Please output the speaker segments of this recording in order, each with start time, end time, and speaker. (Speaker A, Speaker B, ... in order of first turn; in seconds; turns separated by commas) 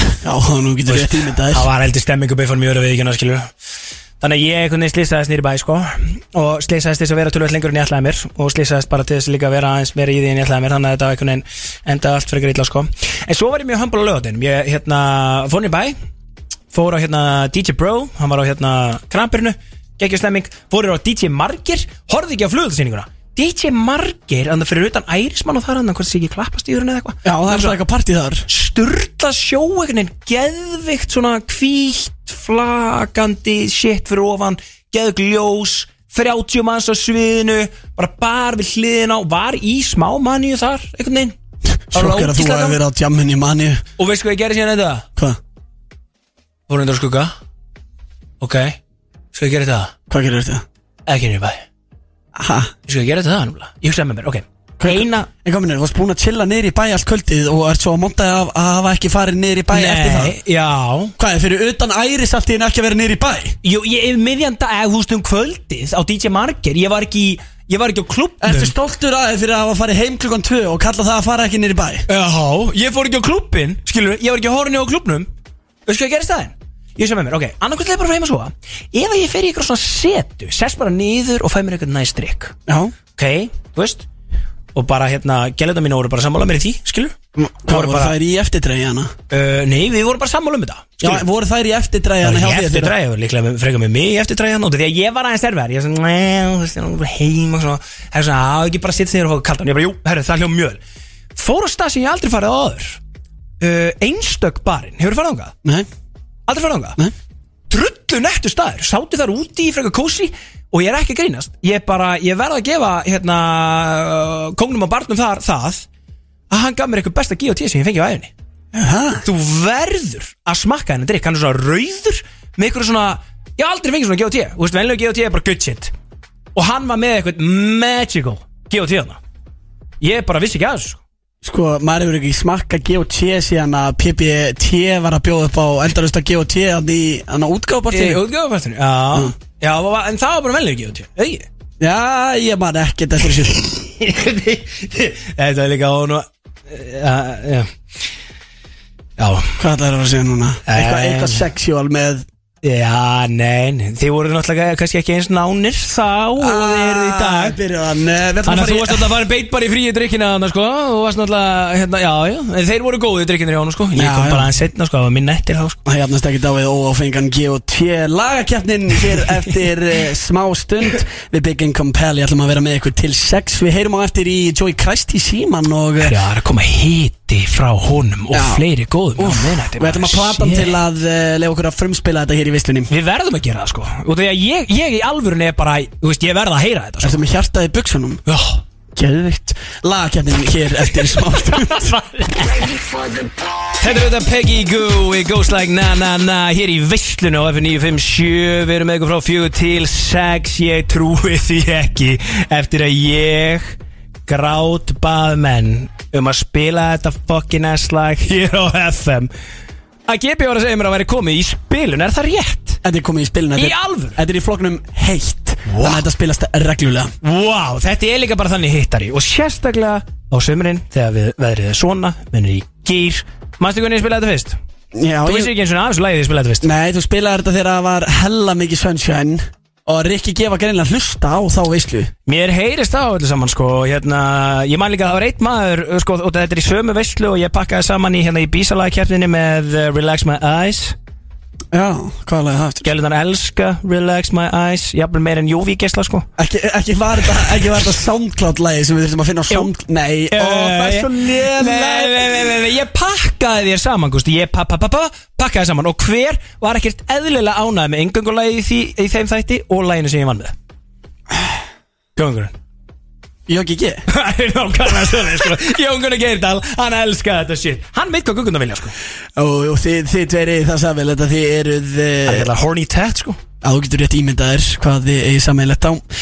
Speaker A: 0.2-1.7, Speaker B: 0.9-3.5, Speaker B: 4.2-15.9, Speaker B: 16.7-27.8, Speaker A: 27.2-28.5, Speaker B: 28.5-41.4, Speaker A: 41.9-43.8, Speaker B: 41.9-42.8, Speaker B: 44.0-45.1, Speaker B: 46.7-47.4, Speaker B: 48.4-48.8, Speaker B: 49.3-49.9, Speaker A: 50.1-50.6, Speaker B: 51.1-51.6, Speaker A: 52.4-52.7, Speaker B: 52.9-55.3, Speaker A: 54.8-60.4, Speaker B: 59.7-61.1, Speaker A: 61.2-63.6, Speaker B: 63.6-68.7, Speaker A: 68.4-72.0, Speaker B: 72.1-75.3, Speaker B: 75.9-82.5, Speaker A: 82.7-83.0, Speaker B: 83.2-84.1, Speaker B: 84.7-87.2, Speaker A: 87.4-89.1, Speaker B: 87.7-88.2, Speaker B: 89.3-91.2, Speaker A: 91.0-93.0, Speaker B: 92.2-100.8, Speaker B: 101.3-103.0, Speaker B: 103.6-105.5, Speaker B: 106.5-107.0, Speaker B: 107.7-115.9, Speaker B: 116.5-118.3, Speaker A: 118.7-119.2, Speaker B: 119.2-125.9, Speaker B: 126.5-129.2, Speaker B: 130.0-131.0, Speaker A: 131.4-138.2, Speaker B: 137.9-141.5, Speaker A: 141.8-143.8, Speaker B: 143.8-147.7, Speaker B: 149.2-149.5, Speaker A: 149.6-152.3, Speaker B: 150.7-151.5, Speaker B: 152.6-157.6, Speaker A: 156.4-159.1, Speaker B: 158.5-165.8, Speaker A: 164.0-164.5, Speaker A: 165.8-176.2, Speaker B: 176.0-180.8, Speaker A: 178.3-178.7, Speaker A: 179.2-182.9, Speaker B: 182.9-187.2, Speaker A: 187.0-188.2, Speaker B: 188.3-188.6, Speaker A: 188.9-191.9, Speaker B: 191.2-192.7, Speaker B: 193.8-209.3, Speaker B: 210.1-212.8, Speaker A: 212.8-217.1, Speaker B: 213.6-214.2, Speaker B: 215.7-216.1, Speaker B: 217.2-224.6, Speaker A: 224.9-225.5, Speaker B: 225.2-226.7, Speaker A: 226.6-232.1, Speaker B: 232.3-240.9, Speaker A: 241.7-242.9, Speaker B: 242.8-246.3, Speaker A: 246.4-252.5, Speaker B: 250.3-260.5, Speaker B: 262.2-262.5, Speaker A: 263.5-264.0, Speaker B: 264.1-268.9, Speaker A: 269.4-272.5, Speaker B: 272.3-273.4, Speaker A: 273.6-276.0